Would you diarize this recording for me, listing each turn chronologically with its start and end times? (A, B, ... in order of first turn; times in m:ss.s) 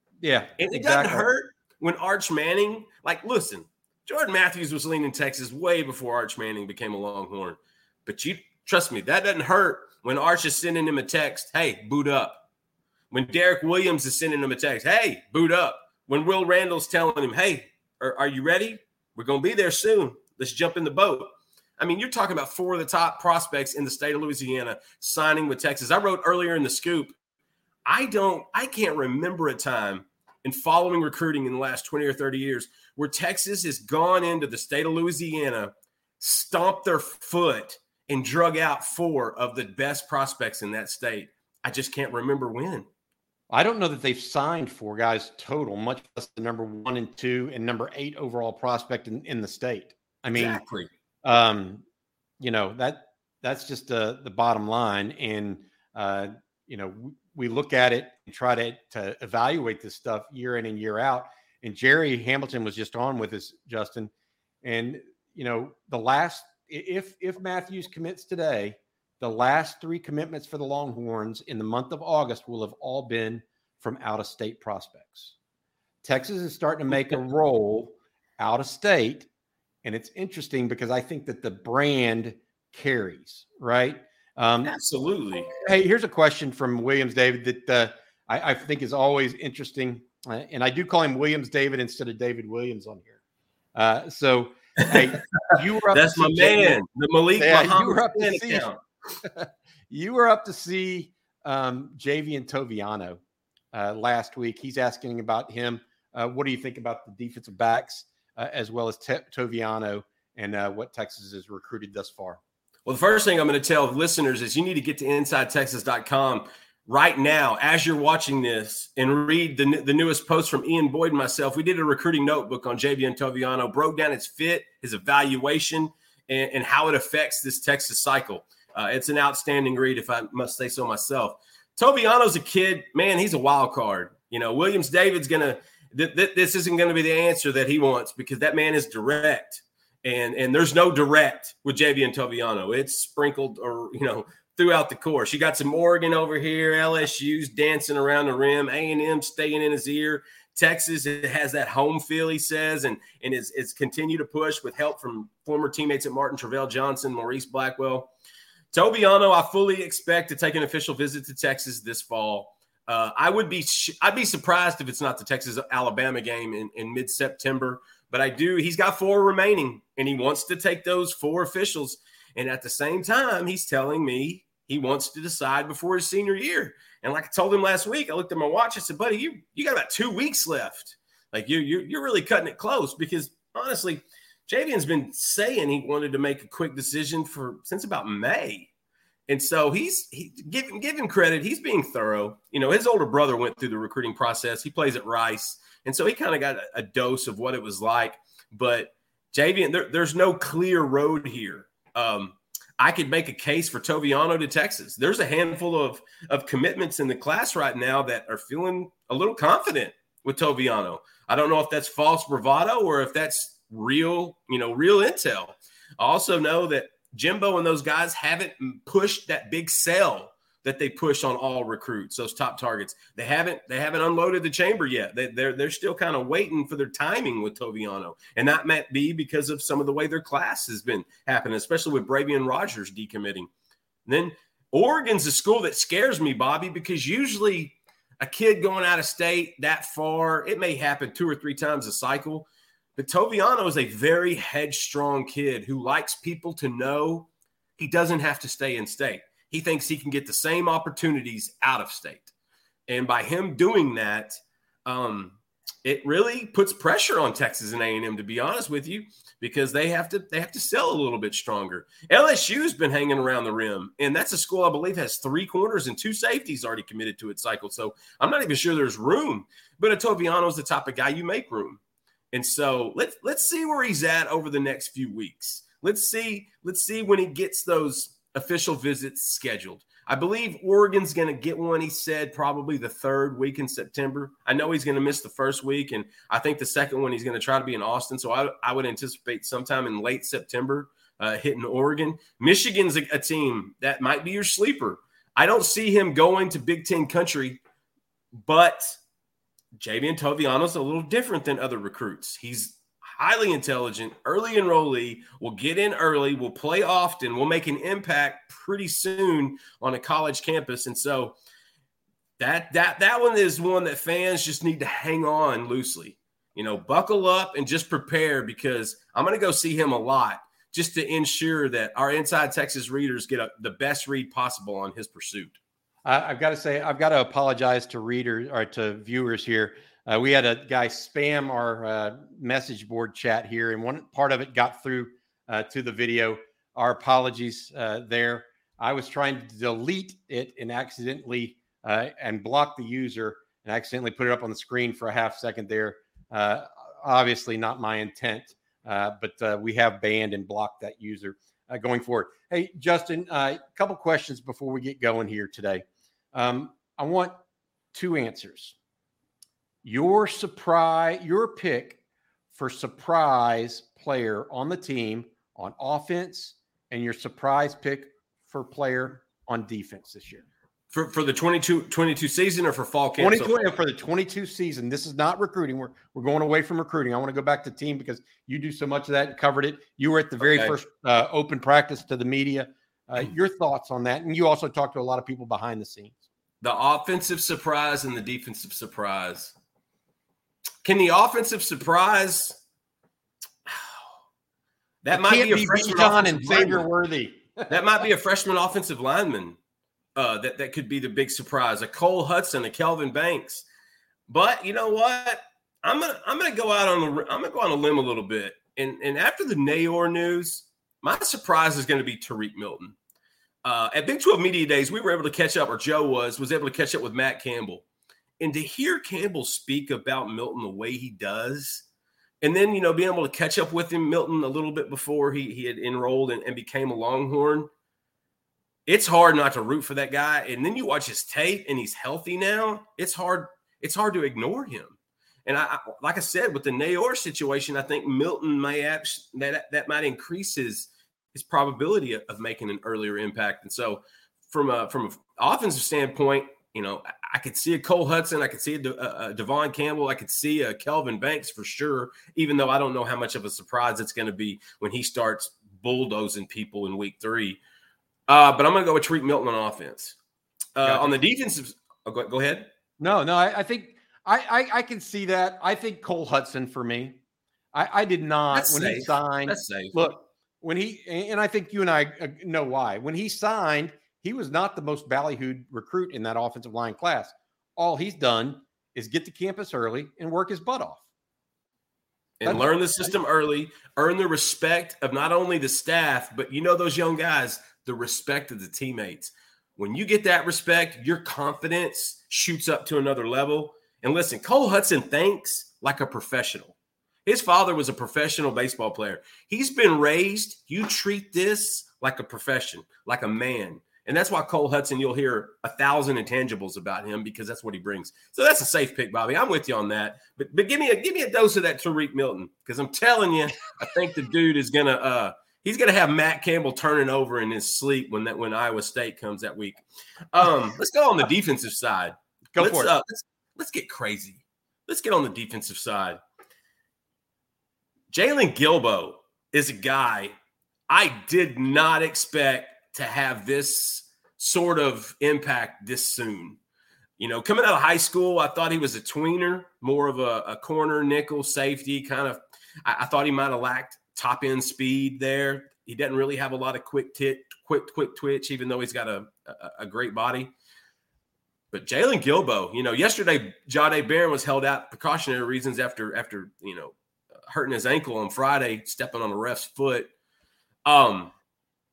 0:00.2-0:01.3 A
0:00.6-0:12.4 B
0:13.1-0:27.2 B
0:27.8-0:42.9 B
0:43.5-0:50.6 A
0:50.3-0:50.9 B
0:51.2-0:51.8 A
0:52.4-1:04.1 A
1:04.6-1:15.3 A
1:16.0-1:19.3 A
1:19.8-1:24.8 A
1:24.6-1:25.5 B
1:25.6-1:33.2 A
1:33.7-1:36.8 A
1:35.9-1:38.8 B
1:37.4-1:38.7 A
1:39.2-1:43.2 A
1:43.7-1:52.4 A
1:52.8-2:38.1 B
2:38.7-3:08.7 B
3:09.3-3:53.5 B
3:54.0-4:12.3 B
4:12.9-4:31.8 B
4:32.3-4:57.6 B
4:58.4-4:59.0 B
4:59.8-5:11.4 B
5:12.4-5:25.6 B
5:26.0-5:57.4 A
5:57.9-5:58.8 A
5:59.8-6:02.0 A
6:02.5-6:10.4 A
6:10.9-6:13.6 B
6:13.2-6:26.2 A
6:20.4-6:20.7 B
6:26.6-6:29.5 B
6:30.8-6:32.6 B
6:33.6-6:34.1 B
6:35.0-6:36.8 B
6:35.1-6:38.0 A
6:37.7-6:39.6 B
6:40.2-6:43.6 B
6:44.3-6:53.0 B
6:53.6-6:57.8 B
6:58.4-7:01.8 B
7:02.4-7:07.7 B
7:08.8-7:37.6 B
7:38.3-7:40.2 B
7:40.8-7:42.7 B
7:40.8-7:41.1 A
7:43.0-7:47.2 A
7:47.7-8:01.0 A
7:48.5-7:49.9 B
8:02.4-8:16.7 B
8:02.4-8:03.1 A
8:17.2-8:46.2 B
8:42.5-8:42.9 A
8:48.1-8:50.3 B
8:50.9-8:56.6 B
8:57.2-9:10.5 B
9:11.7-9:16.9 B
9:17.5-9:20.1 B
9:20.8-9:21.3 B